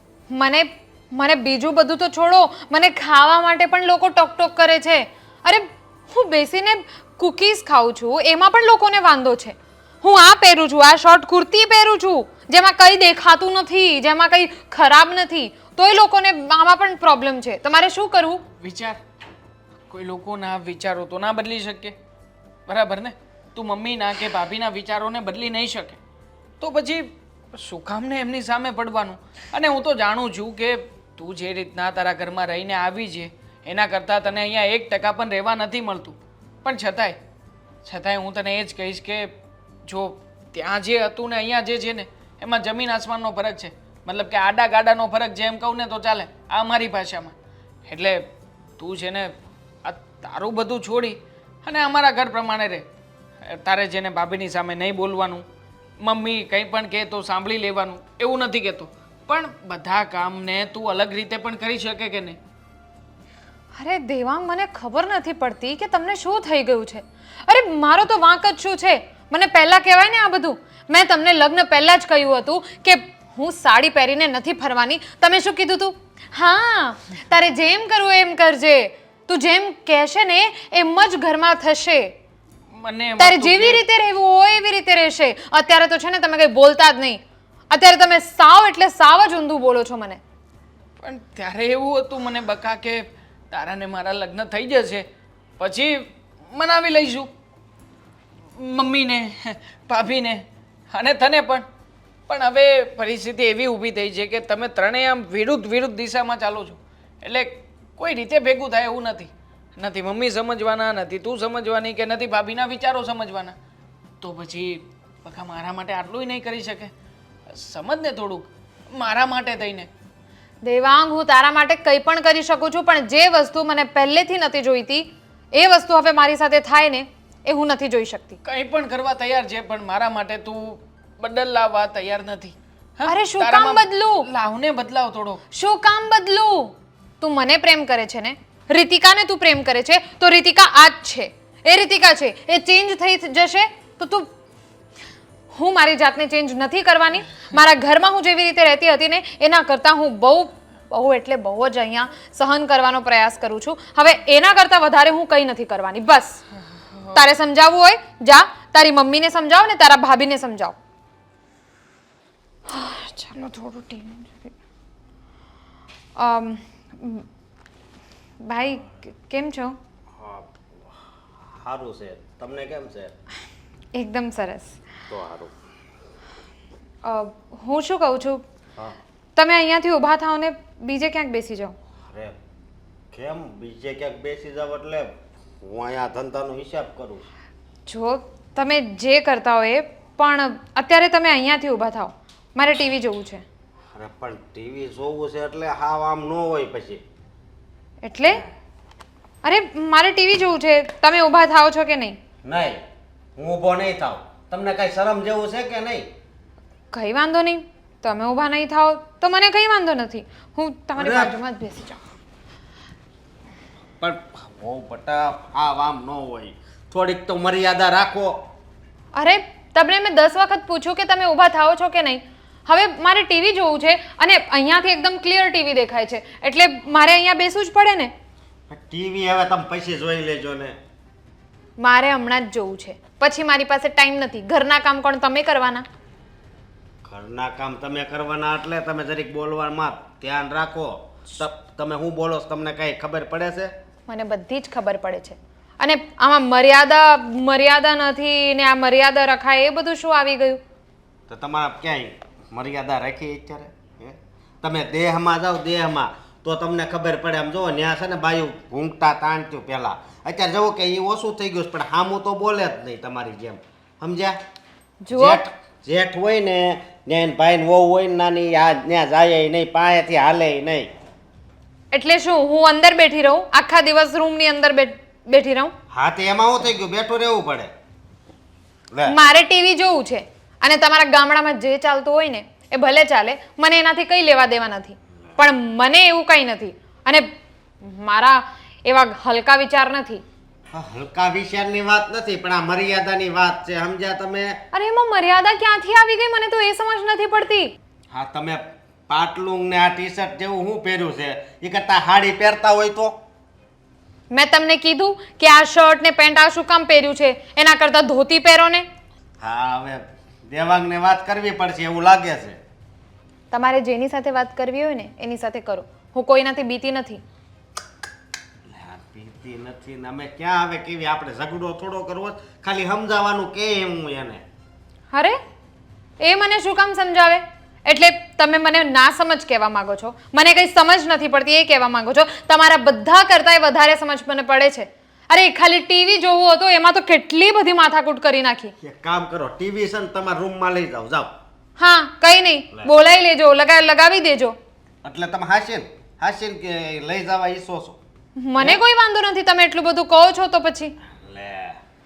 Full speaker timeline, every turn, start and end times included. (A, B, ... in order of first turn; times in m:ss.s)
0:00.3-0:18.4 A
0:18.6-0:19.0 B
0:19.9-0:22.0 B
0:22.7-0:26.0 B
0:26.6-0:37.2 B
0:37.8-0:39.3 B
0:39.9-0:47.4 B
0:47.9-0:48.3 B
0:48.8-0:52.9 B
0:53.4-0:55.5 B
0:56.0-1:02.4 B
1:03.8-1:22.1 A
1:22.7-1:23.8 B
1:23.2-1:30.2 A
1:31.0-1:35.1 B
1:35.6-1:37.3 B
1:38.6-1:41.7 B
1:42.3-1:53.6 B
1:54.2-1:56.9 B
1:57.5-1:59.9 B
2:00.6-2:08.4 A
2:08.4-2:15.4 B
2:13.1-2:14.3 A
2:15.5-2:24.3 A
2:25.5-2:36.4 A
2:37.1-2:40.8 A
2:42.7-2:44.5 A
2:46.2-2:47.2 A
2:48.4-2:49.8 A
2:50.2-2:50.5 C
2:51.6-2:53.1 C
2:53.9-2:54.8 A
2:55.1-2:55.5 C
2:57.0-2:58.4 A
2:59.4-3:01.8 A
3:02.1-3:02.4 C
3:03.1-3:07.3 C
3:07.9-3:13.4 A
3:13.9-3:17.0 C
3:18.0-3:18.4 A
3:19.4-3:22.2 A
3:22.4-3:22.8 C
3:23.4-3:26.1 C
3:26.9-3:32.0 A
3:31.0-3:31.4 C
3:34.0-3:38.4 C
3:39.1-3:48.1 A
3:48.7-3:50.8 C
3:51.8-3:55.9 A
3:57.0-4:03.7 C
4:04.1-4:10.6 A
4:11.3-4:24.4 C
4:25.0-4:25.4 A
4:25.1-4:30.9 C
4:31.9-4:35.7 A
4:35.9-4:37.7 C
4:39.1-4:47.3 A
4:47.8-4:50.2 A
4:50.7-4:54.6 C
4:54.7-4:57.7 A
4:58.1-5:03.2 C
5:04.3-5:08.9 A
5:09.4-5:12.6 C
5:13.5-5:17.2 A
5:18.7-5:24.4 C
5:25.1-5:25.4 A
5:26.2-5:38.7 A
5:38.8-5:41.3 C
5:41.8-5:44.6 A
5:45.0-5:48.0 C
5:48.4-5:50.9 A
5:51.2-5:51.8 C